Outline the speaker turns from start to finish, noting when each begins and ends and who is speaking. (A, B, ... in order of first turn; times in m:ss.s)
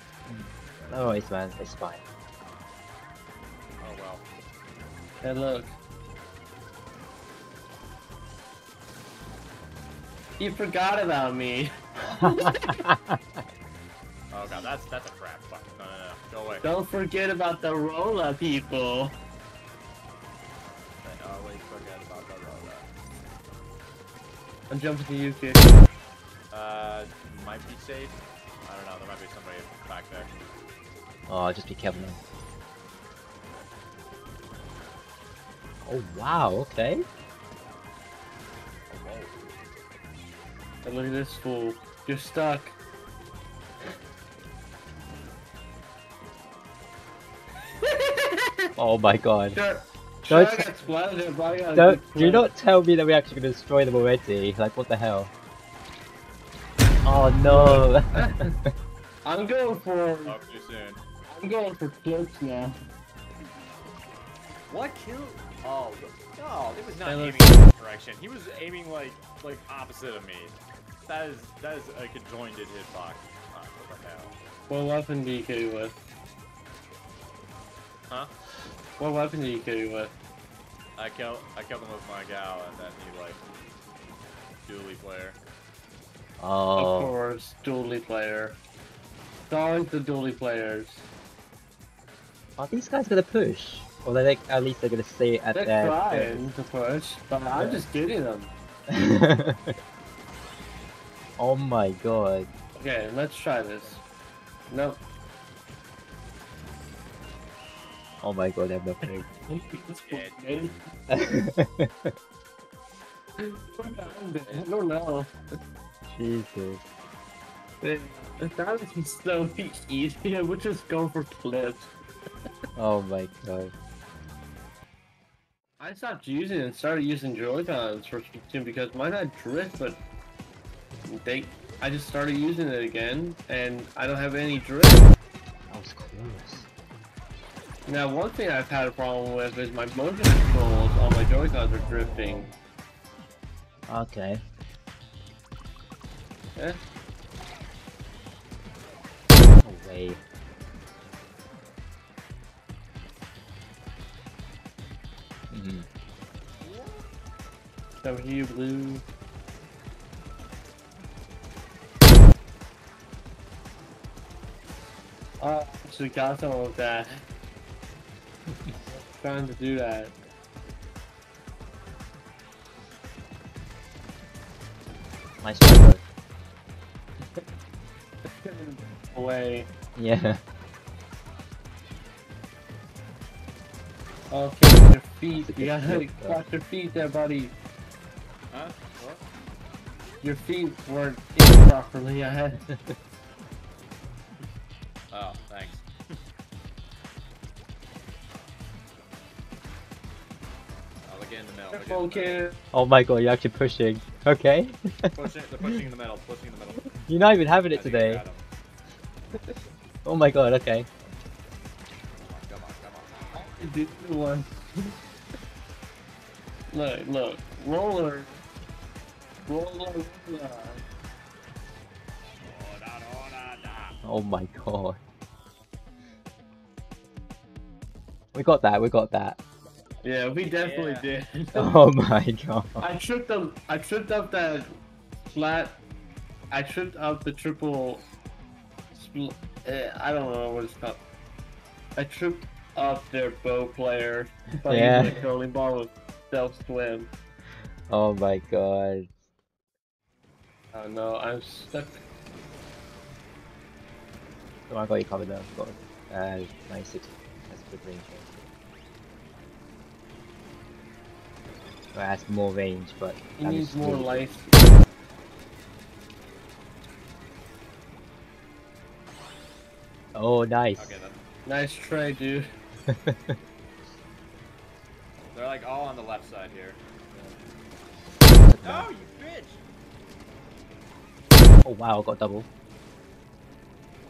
0:00.3-0:02.0 A
0:00.7-0:01.2 B
0:03.8-0:04.2 B
0:05.2-0:05.8 C
0:10.4-0:12.8 C
0:12.0-0:13.2 A
0:14.3-0:16.7 B
0:16.6-0:19.2 C
0:21.0-0:22.9 B
0:24.7-0:25.8 C
0:26.5-0:30.3 B
0:31.3-0:32.2 A
0:35.8-0:37.0 A
0:38.9-0:39.4 B
0:40.8-0:42.8 C
0:47.8-0:48.4 C
0:48.8-0:49.6 A
0:49.5-0:52.5 C
0:50.3-0:50.7 A
0:51.7-0:55.3 A
0:57.0-0:58.7 A
0:57.5-0:58.5 C
0:59.2-1:00.4 C
1:00.2-1:01.0 B
1:01.3-1:02.8 C
1:04.7-1:14.3 B
1:07.0-1:07.6 C
1:14.7-1:16.0 C
1:19.0-1:20.1 C
1:21.0-1:23.4 B
1:24.6-1:25.4 B
1:26.4-1:27.1 A
1:26.8-1:28.6 C
1:29.5-1:31.1 C
1:32.6-1:36.5 A
1:35.5-1:38.5 C
1:37.5-1:37.8 A
1:38.9-1:39.7 A
1:41.4-1:42.5 A
1:42.8-1:44.0 C
1:44.7-1:45.0 C
1:48.2-1:49.3 A
1:49.0-1:50.8 C
1:50.1-1:50.7 B
1:51.1-1:52.1 A
1:53.4-1:55.3 C
1:53.8-1:54.7 B
1:56.1-1:56.8 A
1:57.8-2:01.9 C
2:02.8-2:03.7 A
2:05.8-2:10.0 C
2:11.1-2:15.1 C
2:15.7-2:16.7 A
2:17.8-2:22.5 C
2:23.9-2:24.4 A
2:29.6-2:30.2 A
2:35.5-2:35.8 A
2:36.6-2:36.9 B
2:38.0-2:39.0 C
2:45.4-2:47.2 C
2:48.9-2:50.1 C
2:55.4-2:56.0 A
2:58.2-2:59.7 C
3:00.0-3:00.4 A
3:04.3-3:07.5 C
3:05.3-3:06.4 A
3:08.5-3:09.2 B
3:10.2-3:12.6 C
3:15.1-3:15.9 B
3:21.0-3:22.4 B
3:21.7-3:22.6 C
3:22.7-3:25.8 A
3:25.1-3:26.9 B
3:27.0-3:28.2 A
3:27.7-3:28.4 B
3:30.0-3:30.9 A
3:32.2-3:33.4 B
3:33.3-3:34.9 C
3:36.7-3:38.4 C
3:39.5-3:40.8 C
3:42.4-3:43.9 B
3:44.0-3:45.0 A
3:48.3-3:49.4 A
3:50.0-3:51.7 C
3:50.4-3:51.1 B
3:51.5-3:52.9 A
3:52.8-3:54.7 C
3:55.3-3:55.8 C
3:56.5-3:58.1 C
3:58.9-4:01.0 C
4:02.0-4:07.1 C
4:04.7-4:05.2 A
4:07.9-4:09.1 A
4:10.7-4:12.0 C
4:14.7-4:18.3 A
4:21.9-4:24.3 A
4:23.4-4:24.5 C
4:30.1-4:30.9 A
4:30.8-4:31.2 B
4:31.4-4:32.5 C
4:32.9-4:33.4 A
4:35.3-4:37.3 B
4:38.3-4:38.9 A
4:38.6-4:39.6 B
4:41.6-4:42.5 A